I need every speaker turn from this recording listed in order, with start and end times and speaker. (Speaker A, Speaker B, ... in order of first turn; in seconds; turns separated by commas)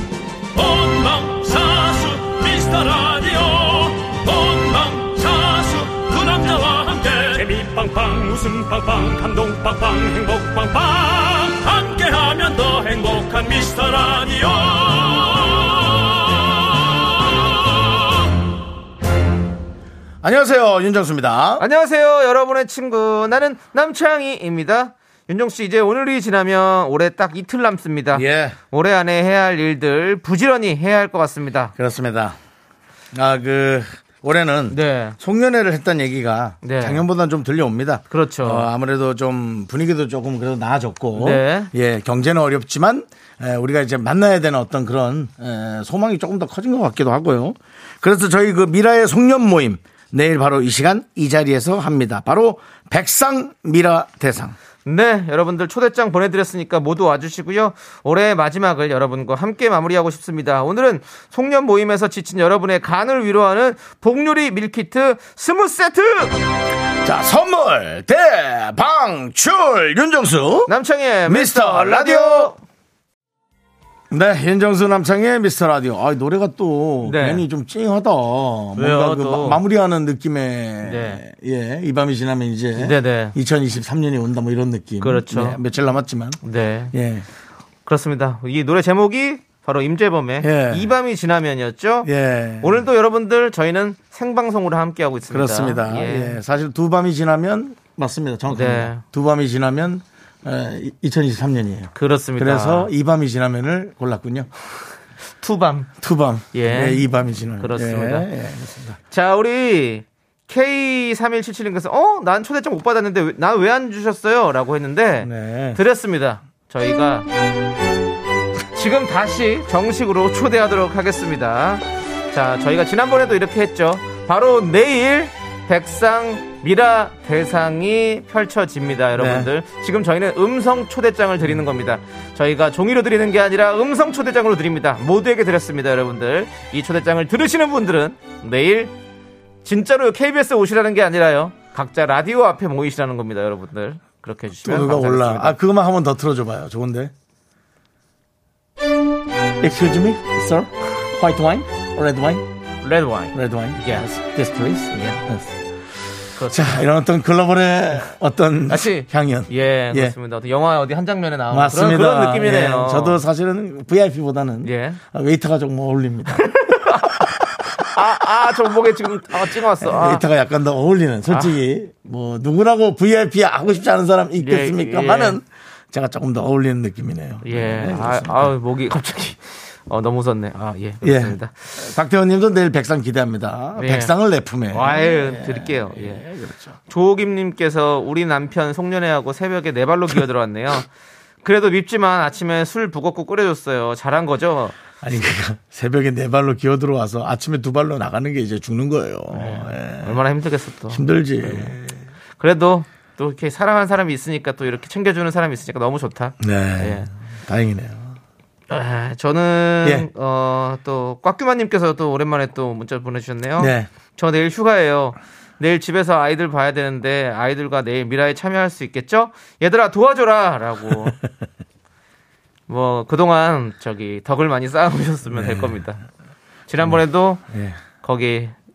Speaker A: 0.5-17.9, Speaker B: 20.2-21.6, Speaker C: 21.6-31.7, Speaker B: 28.1-28.6, Speaker B: 31.8-32.4, Speaker B: 33.1-54.5, Speaker C: 34.7-35.2, Speaker C: 36.6-37.0, Speaker C: 38.1-38.7, Speaker C: 41.1-41.7, Speaker C: 54.9-66.4, Speaker B: 67.0-70.7, Speaker C: 70.7-72.6, Speaker B: 71.3-72.5, Speaker B: 74.1-86.4, Speaker C: 77.0-77.4, Speaker C: 78.8-79.6, Speaker C: 80.8-81.2, Speaker C: 82.8-83.3, Speaker C: 85.0-85.6, Speaker C: 86.4-86.9, Speaker B: 86.9-87.3, Speaker C: 87.9-92.1, Speaker B: 90.4-90.9, Speaker B: 92.0-92.8, Speaker C: 92.6-96.4, Speaker B: 95.3-104.5, Speaker C: 98.5-99.0, Speaker C: 102.0-102.9, Speaker C: 105.4-105.9, Speaker B: 106.0-109.0, Speaker C: 106.5-107.0, Speaker C: 107.6-108.3, Speaker C: 109.1-117.3, Speaker B: 115.2-115.8, Speaker C: 118.8-138.9, Speaker B: 129.2-129.5, Speaker C: 139.7-145.6, Speaker B: 144.6-147.1, Speaker B: 149.6-152.4, Speaker C: 152.8-154.1, Speaker B: 153.3-155.6, Speaker C: 154.9-155.2, Speaker C: 156.4-156.8, Speaker B: 156.5-160.2, Speaker C: 158.7-163.2, Speaker B: 161.5-166.6, Speaker C: 164.6-165.0, Speaker C: 166.4-167.3, Speaker C: 167.9-170.2, Speaker B: 169.2-178.5, Speaker C: 171.3-171.6, Speaker C: 174.4-175.4, Speaker C: 177.4-181.9, Speaker B: 181.0-186.8, Speaker C: 183.8-184.1, Speaker C: 184.7-186.2, Speaker C: 186.9-190.9, Speaker C: 191.4-194.8, Speaker B: 195.0-200.2, Speaker C: 199.3-201.8, Speaker B: 200.9-202.0, Speaker C: 202.4-207.1, Speaker B: 206.4-208.2, Speaker C: 208.7-221.2, Speaker B: 213.6-213.9, Speaker C: 222.7-226.0, Speaker B: 225.3-225.8, Speaker C: 226.7-227.4, Speaker B: 226.8-227.8, Speaker C: 228.0-228.5